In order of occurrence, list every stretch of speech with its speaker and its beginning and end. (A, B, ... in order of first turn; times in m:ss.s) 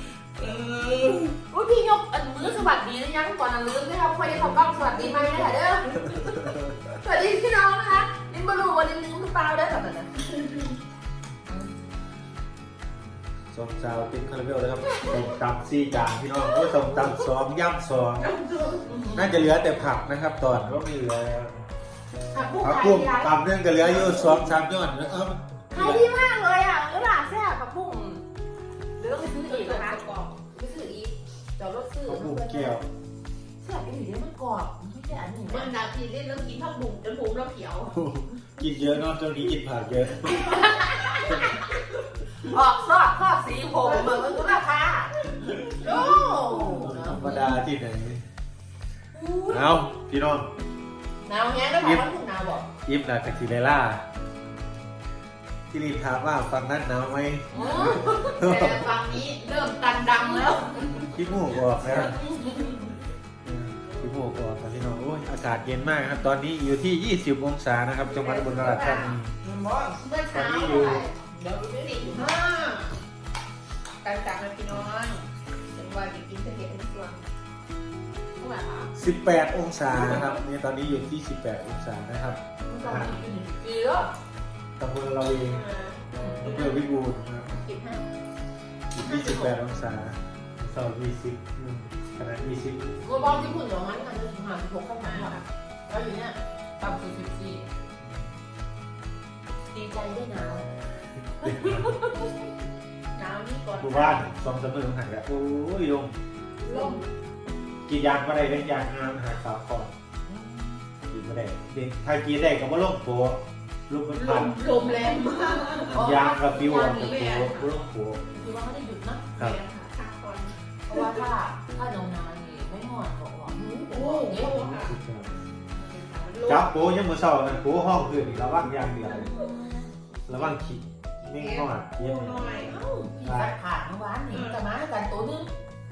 0:00.4-0:01.4 A
0:01.5-0:10.1 B
0:04.7-0:05.5 A
0:13.5-0:18.3 C
0:18.2-0:18.9 A
0:18.9-0:19.4 B
0:19.1-0:21.7 C
0:22.3-0:24.4 B
0:22.6-0:26.0 C
0:25.7-0:28.2 B
0:29.0-0:32.8 B
0:29.5-0:30.3 A
0:32.1-0:32.8 C
0:33.6-0:35.7 B
0:35.5-0:38.0 A
0:37.9-0:40.6 C
0:40.3-0:41.6 B
0:42.4-0:45.1 B
0:43.9-0:44.2 A
0:45.8-0:46.9 A
0:45.8-0:47.6 B
0:46.8-0:48.2 C
0:49.1-0:49.9 B
0:49.5-0:50.5 C
0:51.2-0:52.7 B
0:51.8-0:52.0 C
0:52.8-0:54.0 C
0:55.7-0:58.9 C
0:57.5-0:58.4 B
0:57.6-1:01.1 A
1:00.1-1:00.6 B
1:01.0-1:02.2 C
1:01.8-1:02.9 A
1:03.4-1:09.3 C
1:08.0-1:12.9 A
1:09.4-1:10.0 B
1:10.3-1:11.0 C
1:12.0-1:12.4 B
1:14.0-1:17.2 A
1:18.4-1:18.9 A
1:18.9-1:23.2 C
1:19.9-1:20.4 A
1:22.7-1:24.1 B
1:24.8-1:25.6 C
1:25.4-1:26.7 A
1:26.2-1:26.6 B
1:26.4-1:27.6 C
1:27.7-1:28.0 A
1:28.9-1:33.6 C
1:29.2-1:29.5 A
1:33.0-1:37.6 B
1:35.0-1:35.4 A
1:39.7-1:40.6 B
1:41.4-1:41.9 C
1:41.4-1:41.9 A
1:43.1-1:44.2 A
1:43.8-1:46.1 C
1:46.6-1:47.0 B
1:46.6-1:47.0 A
1:47.9-1:49.9 C
1:50.3-1:50.8 B
1:51.1-1:54.6 C
1:54.1-1:56.0 A
1:55.9-1:57.6 B
1:55.9-1:58.2 C
1:57.0-1:57.6 A
1:58.3-1:59.3 B
1:59.4-2:01.2 A
2:00.9-2:04.5 B
2:03.6-2:04.9 A
2:04.4-2:05.3 C
2:05.7-2:06.7 A
2:06.4-2:09.3 C
2:09.2-2:09.8 A
2:10.3-2:13.5 C
2:11.2-2:12.8 A
2:12.6-2:15.5 B
2:14.3-2:14.6 A